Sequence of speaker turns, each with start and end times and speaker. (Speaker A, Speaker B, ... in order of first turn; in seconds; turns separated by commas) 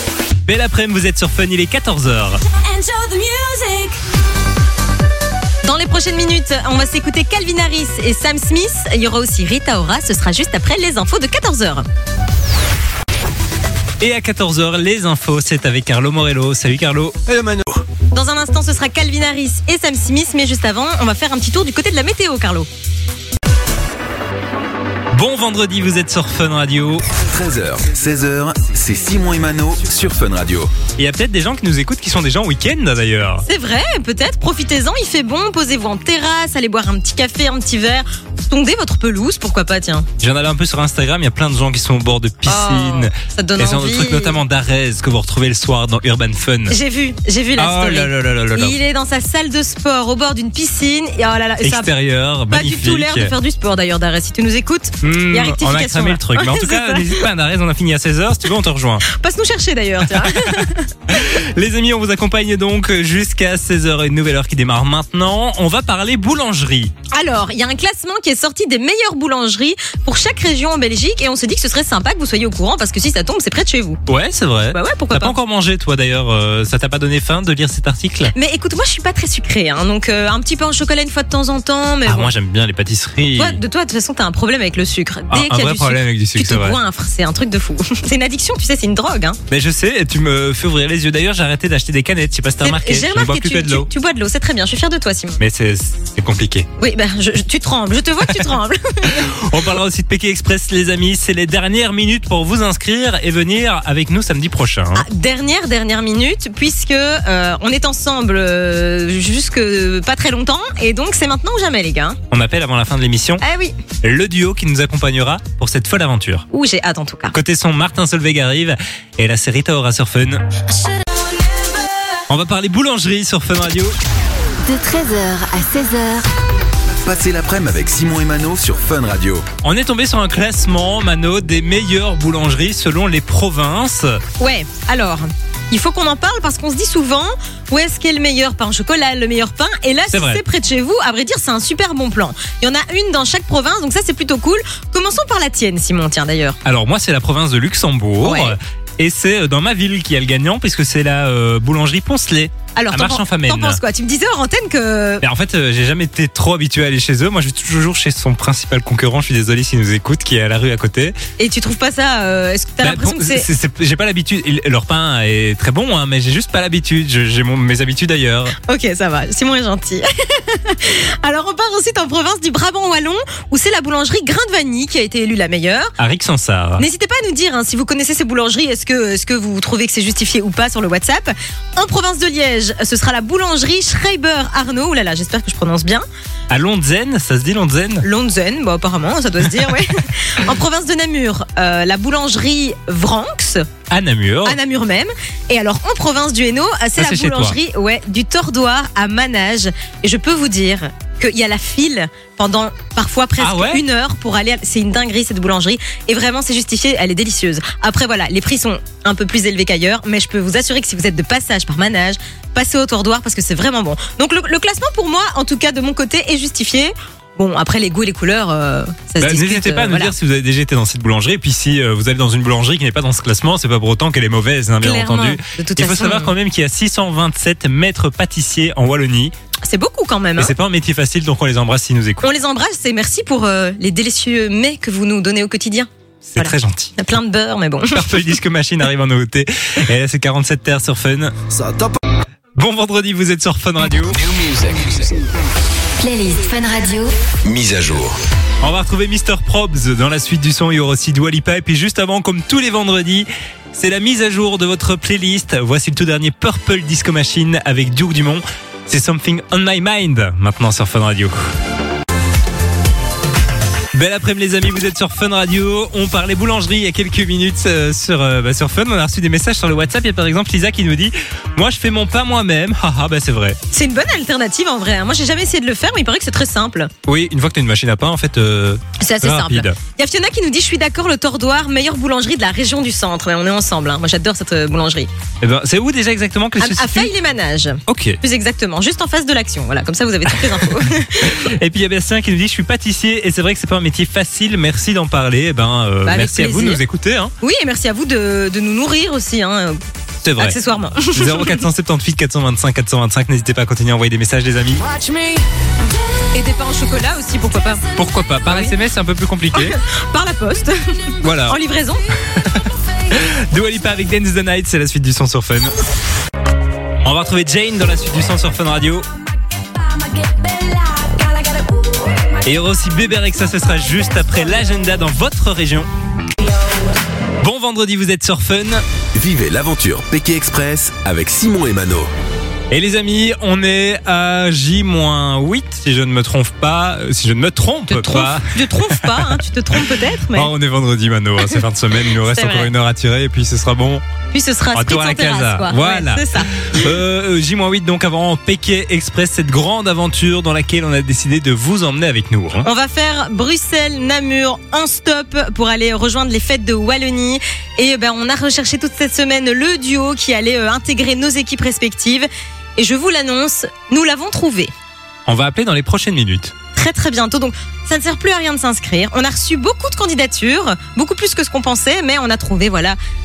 Speaker A: 0.5-2.4, Speaker B: 2.6-4.0, Speaker C: 5.6-11.9, Speaker A: 14.0-17.3, Speaker D: 17.3-17.8, Speaker C: 18.1-22.7, Speaker A: 25.1-27.0, Speaker D: 27.2-30.7, Speaker A: 31.0-33.4, Speaker C: 33.5-40.1, Speaker A: 40.2-46.7, Speaker C: 42.4-44.4, Speaker C: 46.7-51.9, Speaker A: 47.5-48.8, Speaker A: 51.6-53.3, Speaker C: 52.5-57.3, Speaker A: 55.0-59.0, Speaker C: 59.0-61.1, Speaker A: 60.2-66.9, Speaker C: 67.1-74.0, Speaker A: 74.1-78.3, Speaker C: 74.7-75.3, Speaker C: 78.3-82.3, Speaker A: 82.0-83.6, Speaker C: 83.3-89.4, Speaker A: 85.3-86.8, Speaker A: 89.5-93.9, Speaker C: 92.6-95.4, Speaker A: 95.4-96.7, Speaker C: 96.8-99.3, Speaker A: 99.1-105.0, Speaker C: 104.9-112.2, Speaker A: 112.3-113.4, Speaker C: 113.4-113.8, Speaker A: 114.0-116.4, Speaker C: 116.5-117.3, Speaker A: 117.3-120.4, Speaker A: 122.3-123.9, Speaker E: 124.6-126.3, Speaker D: 127.0-129.4, Speaker A: 129.6-134.2, Speaker C: 134.4-146.6, Speaker A: 140.1-140.4, Speaker A: 146.6-153.8, Speaker C: 148.2-148.6, Speaker C: 152.8-155.2, Speaker A: 155.2-161.2, Speaker C: 161.4-163.5, Speaker A: 162.8-168.5, Speaker C: 168.7-175.9, Speaker A: 176.0-176.8, Speaker C: 176.8-186.0, Speaker A: 186.5-188.0, Speaker C: 188.0-193.7, Speaker A: 193.9-194.6, Speaker C: 194.4-220.1, Speaker A: 197.0-197.6, Speaker A: 203.4-203.8, Speaker A: 219.2-229.3, Speaker C: 224.8-226.3, Speaker C: 229.6-230.5, Speaker A: 230.4-232.2, Speaker C: 232.2-238.3, Speaker A: 236.2-236.9, Speaker A: 237.9-241.3, Speaker A: 242.6-244.2, Speaker D: 244.3-245.1, Speaker E: 246.0-247.2, Speaker D: 247.4-248.2, Speaker A: 248.6-261.3, Speaker A: 263.9-273.6, Speaker C: 273.7-276.9, Speaker A: 277.1-279.8, Speaker C: 279.0-285.1, Speaker A: 285.4-287.1, Speaker C: 286.6-291.4, Speaker A: 287.9-288.2, Speaker A: 290.2-297.3, Speaker C: 296.0-296.8, Speaker C: 297.4-299.8, Speaker A: 300.2-304.9, Speaker C: 300.4-301.6, Speaker C: 306.3-307.8, Speaker A: 307.9-309.8, Speaker C: 308.4-308.7, Speaker C: 309.5-312.0, Speaker A: 311.2-311.6, Speaker A: 312.3-315.7, Speaker A: 317.0-319.1, Speaker B: 319.8-322.1, Speaker A: 322.4-325.9, Speaker A: 327.4-328.8, Speaker D: 329.1-332.1, Speaker A: 332.7-344.0, Speaker C: 337.9-340.5, Speaker C: 341.4-342.7, Speaker C: 344.3-346.9, Speaker A: 344.7-352.7, Speaker C: 352.6-364.7, Speaker A: 365.3-366.5, Speaker C: 366.7-373.0